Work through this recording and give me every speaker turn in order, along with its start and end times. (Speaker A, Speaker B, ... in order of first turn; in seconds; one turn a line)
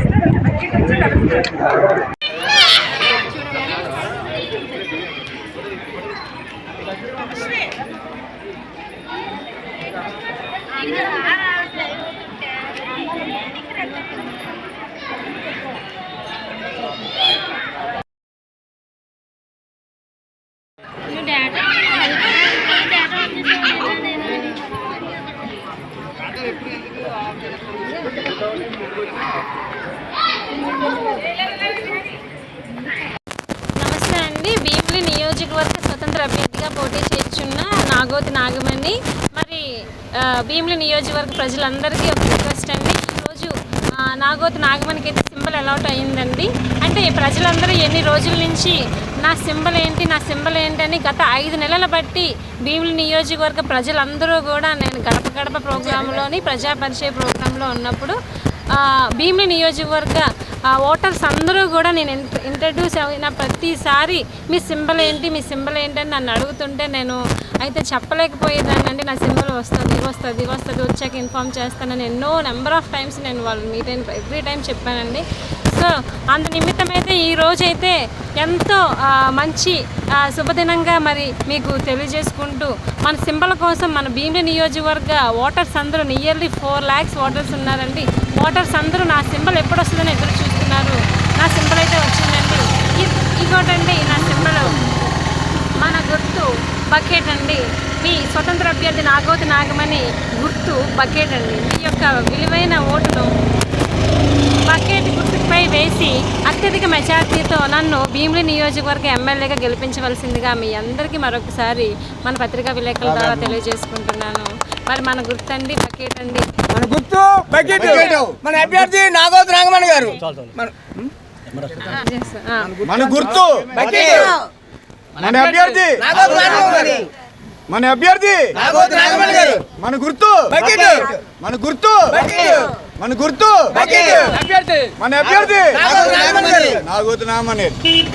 Speaker A: 33.8-58.2
Speaker A: 58.7-94.9
Speaker A: 95.8-103.3
Speaker A: 104.7-116.5
Speaker B: 116.8-117.3
Speaker C: 116.8-121.0
Speaker B: 118.0-118.4
Speaker A: 121.8-122.8
Speaker C: 122.8-124.4
Speaker B: 122.9-123.5
Speaker B: 125.2-126.0
Speaker C: 125.2-127.1
Speaker B: 127.7-128.7
Speaker C: 128.6-129.7
Speaker B: 129.6-130.6
Speaker C: 130.5-131.2
Speaker B: 131.2-132.2
Speaker C: 132.2-132.7
Speaker B: 132.8-133.8
Speaker C: 133.7-136.8
Speaker B: 135.0-135.9
Speaker B: 136.7-137.8